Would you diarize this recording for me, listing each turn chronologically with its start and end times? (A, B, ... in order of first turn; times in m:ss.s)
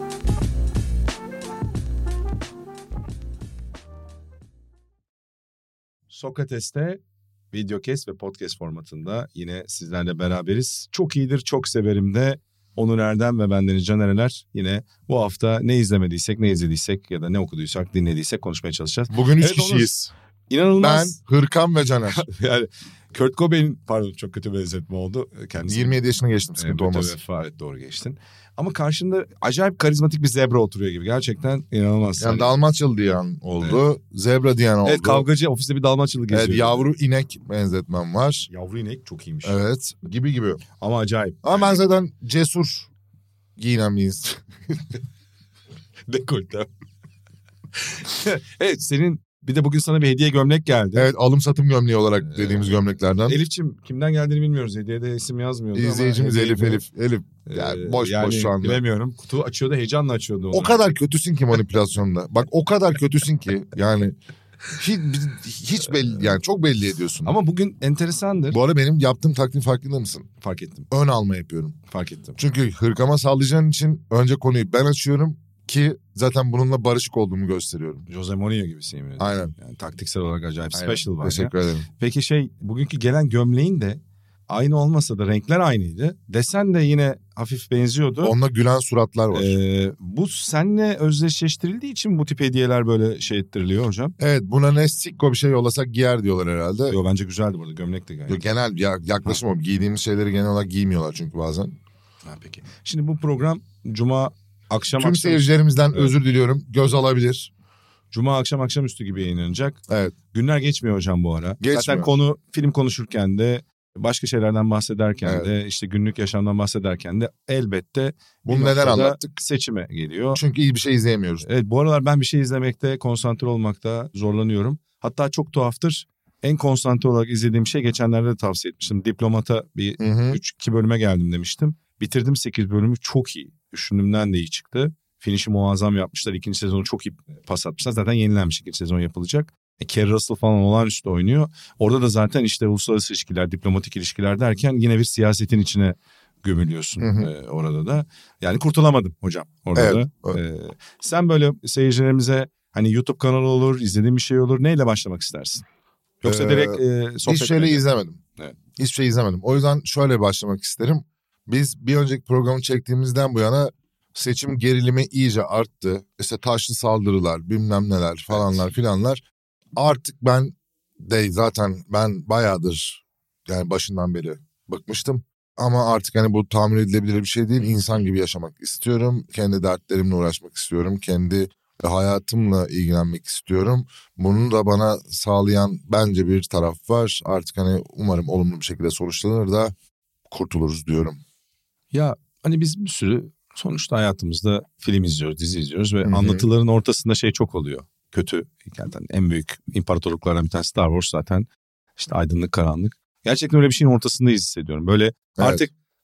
0:06.1-0:07.0 A
0:07.5-0:19.9 A
0:19.1-0:20.1 B
0:20.5-0:21.2 A
0:20.8-0:22.2 B
0:22.1-0:26.0 A
0:25.7-0:27.2 B
0:26.6-0:32.5 A
0:32.2-0:35.3 B
0:34.8-0:36.9 A
0:36.3-0:38.5 B
0:38.5-0:39.6 A
0:39.4-0:40.6 B
0:40.8-0:41.6 A
0:41.4-0:42.9 B
0:43.6-0:44.8 B
0:46.1-0:46.7 A
0:47.8-0:51.1 A
0:51.0-0:53.4 B
0:52.3-0:56.8 A
0:55.8-0:58.8 B
0:57.5-1:00.8 A
1:00.5-1:04.2 B
1:04.8-1:07.3 B
1:07.2-1:08.6 A
1:08.5-1:10.3 B
1:10.4-1:10.9 A
1:10.9-1:11.8 B
1:11.9-1:12.4 A
1:12.4-1:18.1 B
1:18.1-1:28.4 A
1:19.2-1:19.5 B
1:20.7-1:21.9 B
1:28.2-1:29.6 B
1:29.3-1:34.2 A
1:34.2-1:37.0 B
1:36.9-1:38.4 A
1:38.3-1:41.8 B
1:42.2-1:46.1 A
1:45.0-1:47.5 B
1:48.1-1:49.8 A
1:49.9-1:50.1 B
1:50.3-2:00.4 A
1:51.6-1:52.1 B
1:55.2-1:55.5 B
1:58.4-1:59.3 B
2:00.4-2:01.4 B
2:01.4-2:35.6 A
2:10.0-2:10.4 B
2:27.0-2:27.3 B
2:29.8-2:30.4 B
2:36.2-2:37.8 A
2:36.2-2:38.2 B
2:38.8-2:49.2 B
2:48.3-2:48.6 A
2:49.8-3:09.7 B
3:10.3-3:11.2 B
3:11.9-3:25.7 A
3:16.1-3:16.4 B
3:25.4-3:25.6 B